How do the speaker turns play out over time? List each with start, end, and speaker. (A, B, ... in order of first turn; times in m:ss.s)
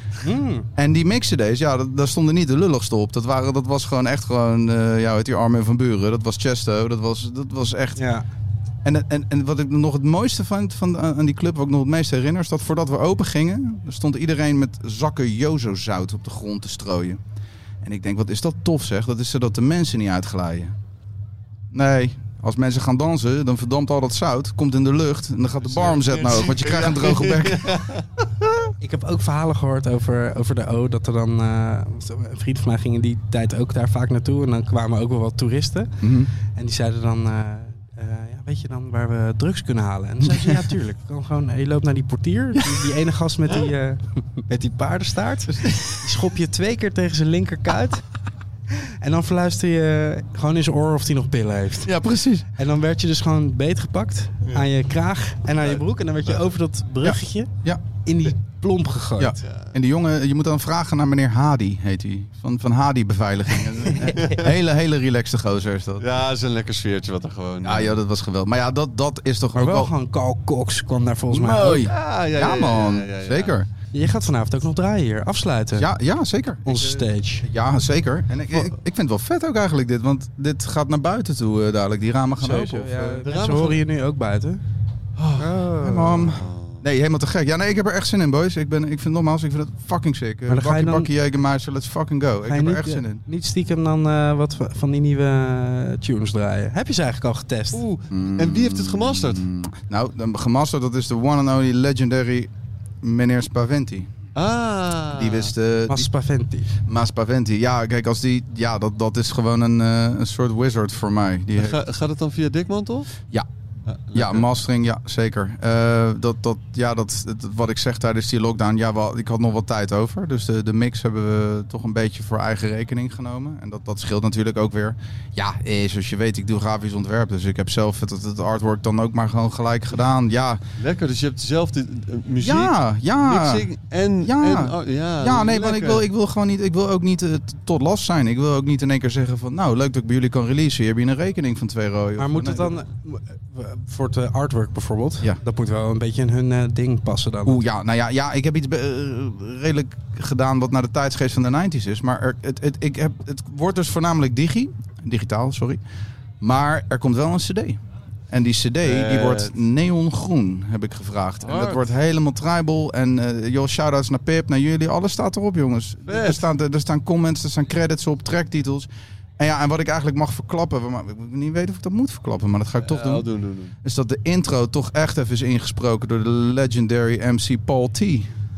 0:00.2-0:00.7 A
0:00.8-0:08.0 B
0:08.0-0:08.2 A
0:08.8-0:17.2 B
0:17.8-0:20.7 B
0:21.7-0:27.8 B
0:25.6-0:28.0 C
0:28.8-0:35.9 A
0:36.0-0:36.3 B
0:36.4-0:48.0 A
0:49.0-0:51.9 A
0:51.8-0:52.4 B
0:52.6-0:57.5 A
0:55.6-0:56.4 C
0:57.0-0:57.8 B
0:58.0-0:59.4 A
0:59.2-1:06.0 B
0:59.4-0:59.7 C
1:04.0-1:04.5 C
1:06.0-1:08.0 C
1:07.6-1:09.9 B
1:09.6-1:11.8 A
1:11.3-1:13.7 B
1:11.6-1:13.6 C
1:13.9-1:15.9 A
1:15.7-1:23.2 B
1:16.6-1:17.4 A
1:22.4-1:24.6 A
1:23.2-1:23.8 C
1:25.4-1:26.4 A
1:25.8-1:33.2 B
1:26.3-1:26.8 C
1:30.5-1:31.1 A
1:32.4-1:37.8 A
1:37.7-1:39.5 C
1:38.1-1:42.5 B
1:43.0-1:44.1 B
1:44.3-1:45.5 C
1:45.1-1:46.1 B
1:45.9-1:46.7 A
1:46.9-1:51.8 B
1:51.6-1:53.1 C
1:53.9-1:54.5 C
1:54.1-2:10.6 B
2:10.8-2:16.0 C
2:12.4-2:13.6 B
2:14.2-2:22.7 B
2:22.2-2:27.6 A
2:27.4-2:35.8 B
2:36.4-2:37.8 B
2:38.3-2:48.9 B
2:38.8-2:39.6 C
2:41.4-2:41.9 C
2:46.1-2:46.5 C
2:49.4-2:53.2 B
2:52.8-2:53.7 C
2:53.8-2:58.3 B